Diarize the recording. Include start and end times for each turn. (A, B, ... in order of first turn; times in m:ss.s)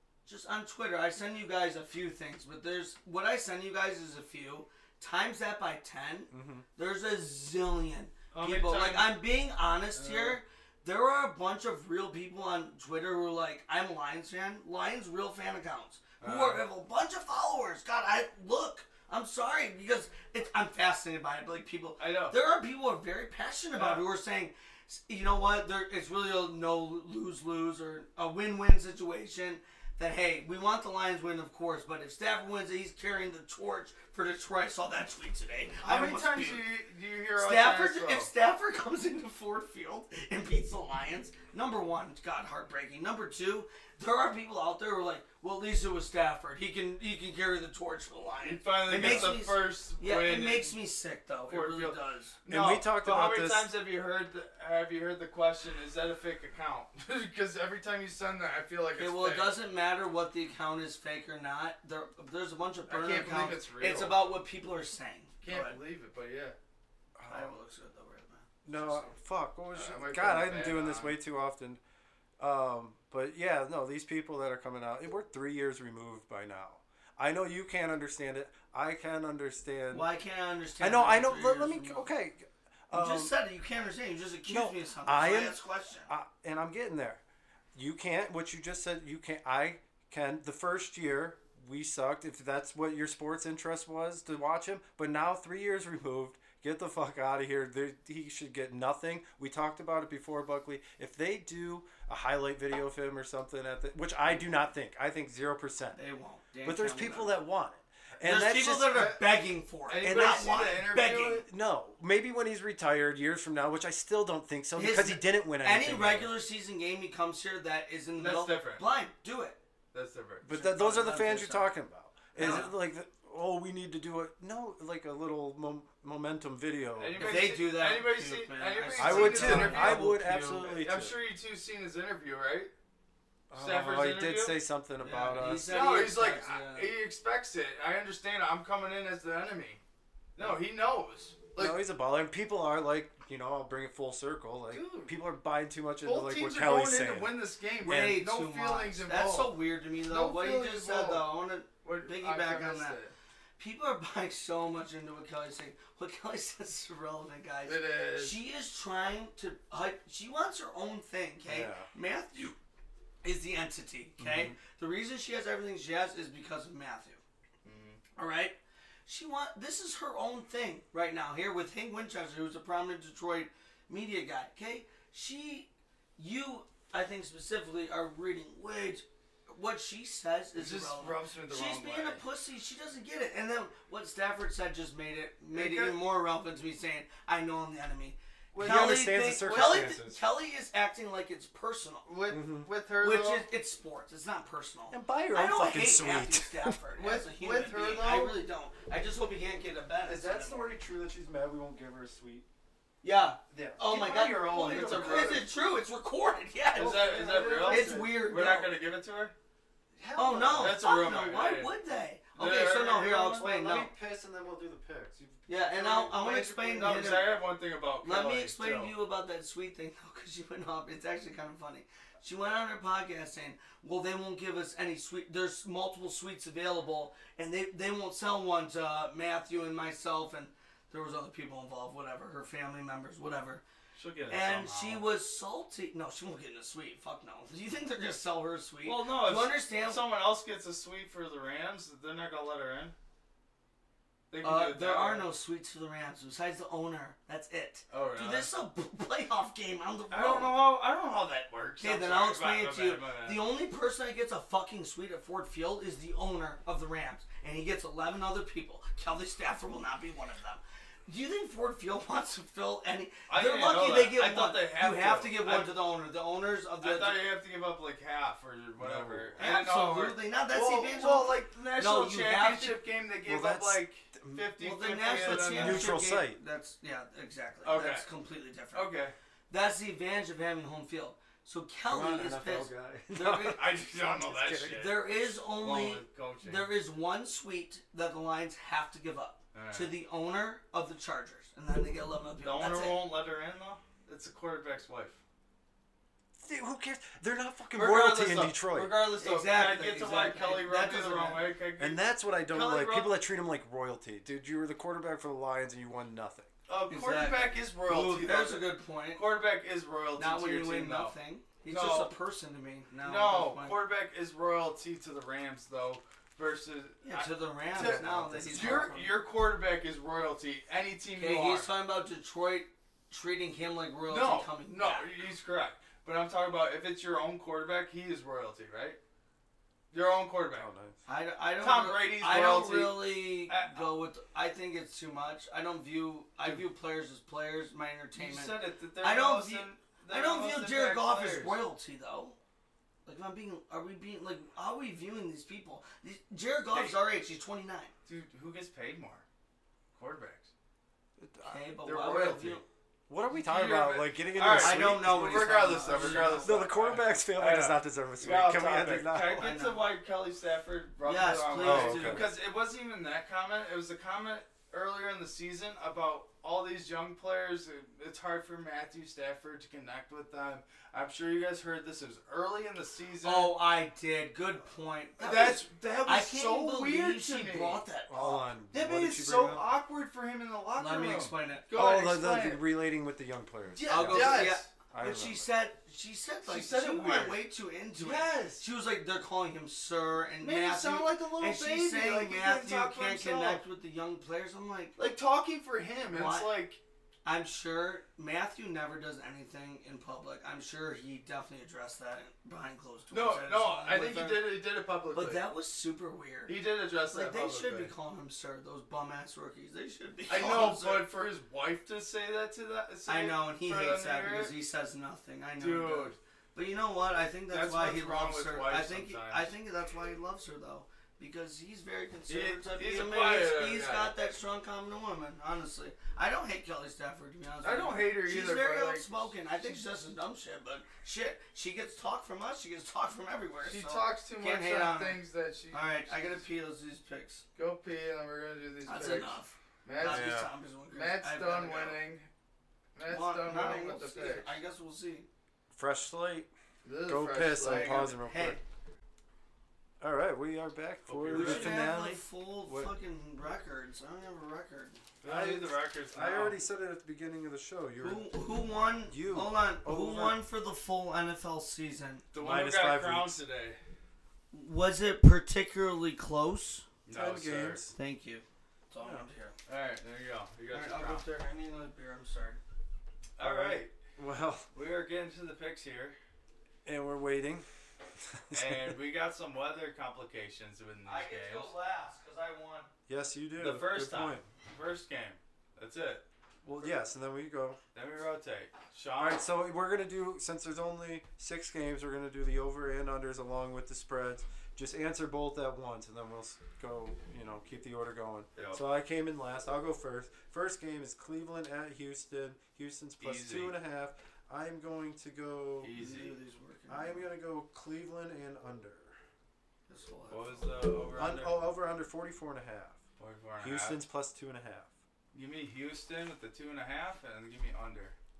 0:00.2-0:36.7 A
0:06.3-0:06.6 B
0:08.3-0:09.2 C
0:09.9-0:10.4 C
0:16.2-0:16.6 C
0:22.0-0:22.3 C
0:23.7-0:24.0 C
0:35.8-0:38.3 C
0:37.4-0:52.4 A
0:48.4-0:50.8 C
0:48.9-0:49.4 B
0:51.5-0:59.6 C
0:52.5-0:53.7 B
0:58.9-1:05.8 A
1:02.9-1:04.2 C
1:05.4-1:06.6 C
1:07.2-1:07.5 B
1:07.3-1:09.1 A
1:08.6-1:11.8 B
1:09.7-1:11.2 C
1:12.4-1:20.1 B
1:19.9-1:22.1 A
1:20.8-1:23.3 B
1:22.9-1:26.1 A
1:24.5-1:27.2 B
1:27.7-1:46.0 B
1:46.0-1:47.4 A
1:46.6-1:49.1 B
1:48.2-1:51.4 A
1:48.9-1:49.2 C
1:49.8-1:51.4 C
1:50.0-1:50.7 B
1:51.2-1:56.3 B
1:54.8-1:59.6 A
1:58.2-1:58.8 C
1:59.9-2:00.4 C
2:00.4-2:07.4 B
2:00.5-2:01.7 A
2:02.4-2:02.7 A
2:02.4-2:02.7 C
2:07.0-2:12.7 C
2:07.2-2:10.7 A
2:09.0-2:11.2 B
2:13.5-2:15.8 B
2:13.5-2:14.6 C
2:15.0-2:16.9 A
2:15.4-2:19.8 C
2:20.4-2:21.8 C
2:21.6-2:27.3 B
2:24.7-2:25.1 C
2:26.0-2:31.3 C
2:27.8-2:33.0 A
2:31.8-2:33.1 C
2:33.6-2:42.6 A
2:37.6-2:38.4 C
2:41.4-2:41.9 B
2:43.2-2:47.2 A
2:44.2-2:44.6 B
2:47.6-2:48.0 C
2:48.2-3:12.1 A
3:00.5-3:02.2 C
3:05.5-3:06.0 C
3:08.5-3:09.8 C
3:08.6-3:10.2 B
3:12.0-3:13.5 C
3:12.3-3:12.7 B
3:13.0-3:20.7 A
3:14.9-3:16.8 B
3:16.9-3:18.4 C
3:20.0-3:22.4 B
3:23.0-3:28.7 A
3:23.5-3:25.4 B
3:23.8-3:25.5 C
3:26.8-3:28.3 B
3:26.8-3:29.3 C
3:30.0-3:30.8 B
3:30.2-3:33.9 A
3:30.6-3:31.7 C
3:32.3-3:33.5 C
3:33.3-3:35.5 B
3:35.5-3:37.4 A
3:35.7-3:38.9 C
3:38.0-3:53.6 A
3:53.9-3:55.0 C
3:54.3-4:00.0 A
3:58.8-4:02.9 C
4:04.3-4:05.3 C
4:04.4-4:10.6 A
4:07.9-4:08.5 C
4:10.1-4:13.4 C
4:11.8-4:27.2 A
4:23.3-4:25.8 C
4:26.8-4:36.0 C
4:28.8-4:29.4 B
4:29.4-4:32.8 A
4:33.2-4:34.5 B
4:34.6-4:38.9 A
4:35.2-4:36.4 B
4:37.6-4:38.1 C
4:38.7-4:39.1 C
4:39.5-4:43.6 A
4:41.9-4:44.9 B
4:43.4-4:46.7 C
4:44.7-4:53.0 A
4:49.5-4:49.9 C
4:52.4-4:55.2 C
4:56.4-4:58.9 B
4:57.7-5:03.1 C
4:59.2-5:01.5 A
5:01.8-5:06.5 B
5:06.7-5:11.1 C
5:06.9-5:09.2 A
5:10.2-5:13.8 A
5:11.7-5:12.1 C
5:13.0-5:21.7 C
5:17.0-5:19.1 A
5:17.8-5:19.0 B
5:21.1-5:25.1 A
5:24.1-5:29.0 C
5:29.9-5:30.7 C
5:30.5-5:31.0 B
5:31.0-5:42.4 A
5:31.6-5:33.9 C
5:38.1-5:41.6 C
5:43.0-5:47.9 A
5:46.7-5:47.0 C
5:48.0-5:49.2 C
5:49.9-5:50.5 C
5:51.2-5:51.6 B
5:51.4-5:52.6 A
5:51.8-5:52.6 C
5:53.1-5:59.4 B
5:53.3-6:13.6 C
5:54.4-5:56.6 A
5:59.3-5:59.8 A
6:01.0-6:02.3 A
6:01.6-6:02.3 B
6:13.2-6:18.4 A
6:15.2-6:17.8 C
6:18.1-6:19.6 B
6:18.7-6:22.6 C
6:20.8-6:21.7 A
6:21.7-6:25.5 B
6:23.7-6:35.0 A
6:23.8-6:24.7 C
6:26.4-6:27.4 C
6:27.9-6:28.6 C
6:30.4-6:33.6 C
6:35.0-6:36.8 C
6:36.1-6:36.6 A
6:37.2-6:44.6 A
6:43.1-6:45.4 C
6:45.1-6:51.1 A
6:46.5-6:47.9 C
6:50.3-6:54.5 C
6:53.0-7:17.4 A
6:55.6-6:56.2 C
6:57.5-6:59.5 C
7:02.3-7:04.1 C
7:07.6-7:09.8 C
7:13.6-7:16.4 C
7:17.6-7:22.3 C
7:18.8-7:22.0 A
7:20.0-7:20.5 B
7:22.9-7:24.6 C
7:23.1-7:25.3 A
7:25.7-7:26.5 B
7:26.8-7:28.1 C
7:27.0-7:28.6 B
7:27.6-7:28.6 A
7:30.0-7:32.9 B
7:31.0-7:31.9 C
7:31.3-7:35.0 A
7:35.2-7:36.6 C
7:35.2-7:38.4 B
7:38.0-7:42.2 A
7:39.0-7:40.4 B
7:42.3-7:43.8 C
7:42.4-7:43.4 B
7:44.5-7:46.8 A
7:47.0-7:47.8 C
7:47.1-7:47.9 B
7:47.9-7:49.6 A
7:49.0-7:49.3 B
7:49.7-7:51.2 C
7:50.7-7:52.6 A
7:53.4-7:53.9 C
7:53.4-7:54.7 B
7:54.7-7:56.2 C
7:56.8-7:57.7 B
7:58.2-7:59.0 B
7:58.5-8:01.7 C
8:01.0-8:02.9 A
8:03.1-8:04.5 B
8:03.6-8:06.2 C
8:06.6-8:07.8 B
8:07.9-8:09.4 C
8:09.2-8:25.9 B
8:18.5-8:18.8 C
8:23.2-8:23.7 C
8:25.8-8:26.4 C
8:25.9-8:27.3 A
8:26.9-8:29.2 B
8:29.9-8:30.7 A
8:30.3-8:31.6 C
8:31.1-8:33.0 B
8:33.2-8:34.0 C
8:33.6-8:34.9 B
8:35.3-8:38.1 C